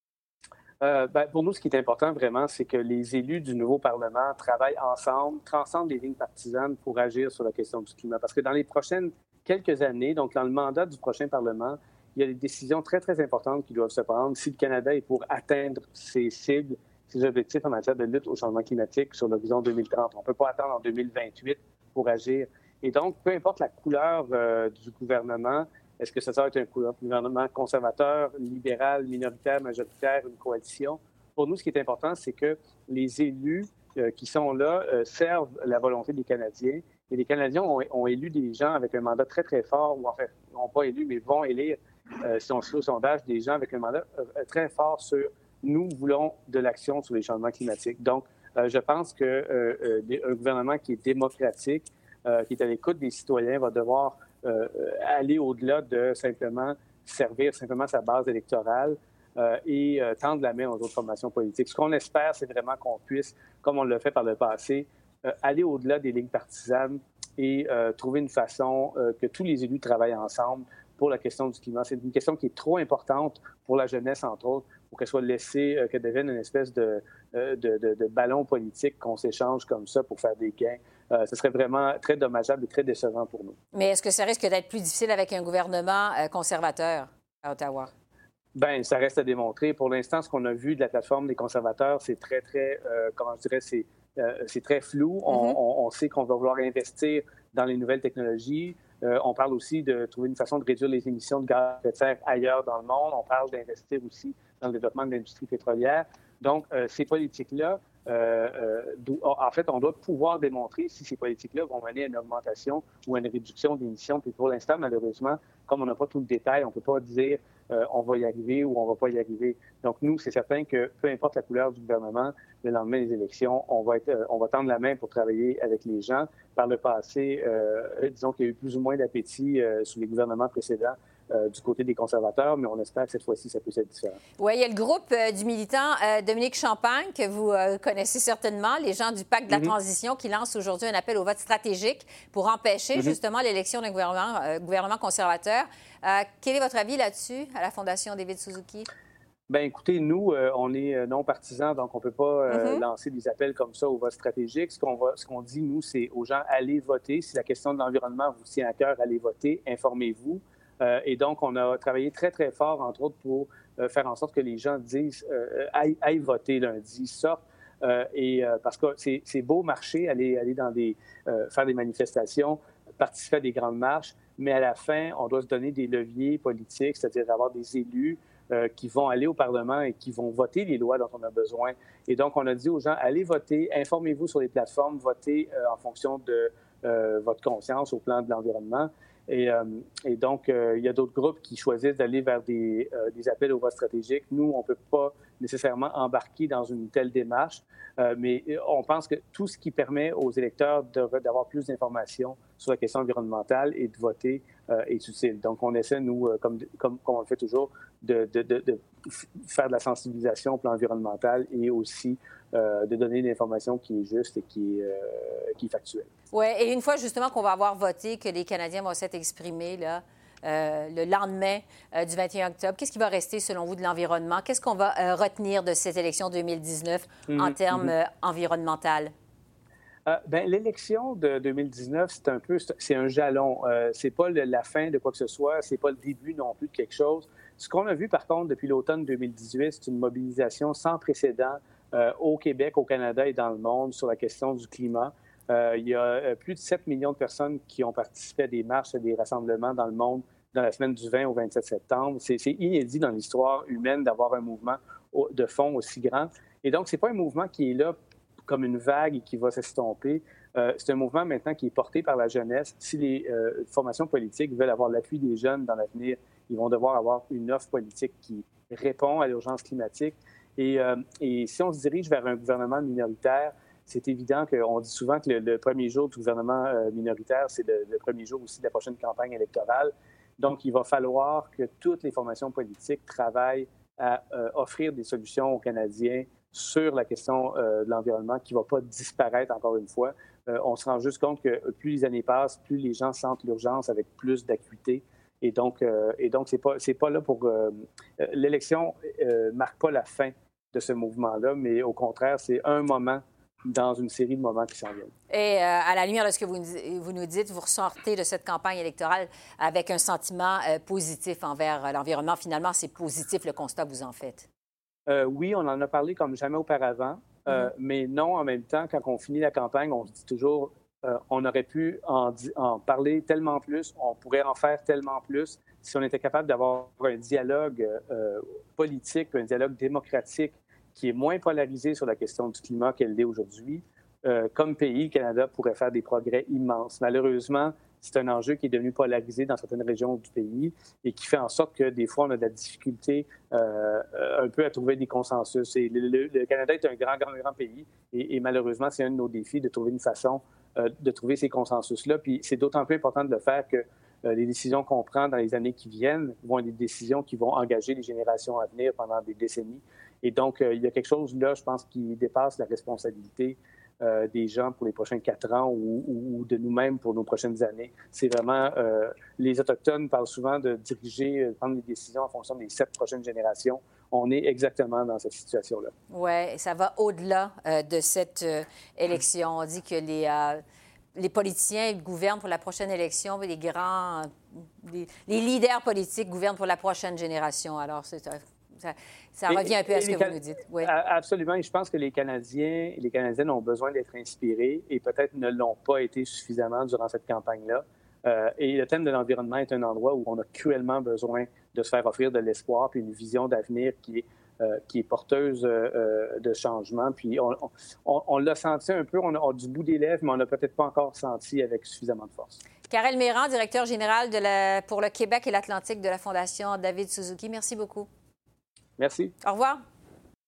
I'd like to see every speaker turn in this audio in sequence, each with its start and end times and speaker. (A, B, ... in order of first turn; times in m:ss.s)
0:00.8-1:23.6 A
1:23.7-1:27.9 B
1:28.6-2:14.2 A
1:35.3-1:35.6 B
2:14.4-2:28.9 B
2:29.5-3:28.8 A
2:32.5-2:32.8 B
3:29.4-3:36.1 A
3:36.3-3:49.1 B
3:47.3-3:47.9 A
3:50.1-5:05.1 A
5:05.3-5:14.5 B
5:15.1-6:15.9 A
6:16.1-6:20.6 B
6:21.2-6:30.9 B
6:29.5-6:52.6 A
6:52.9-6:58.1 B
6:59.0-6:59.3 A
6:59.4-6:59.8 B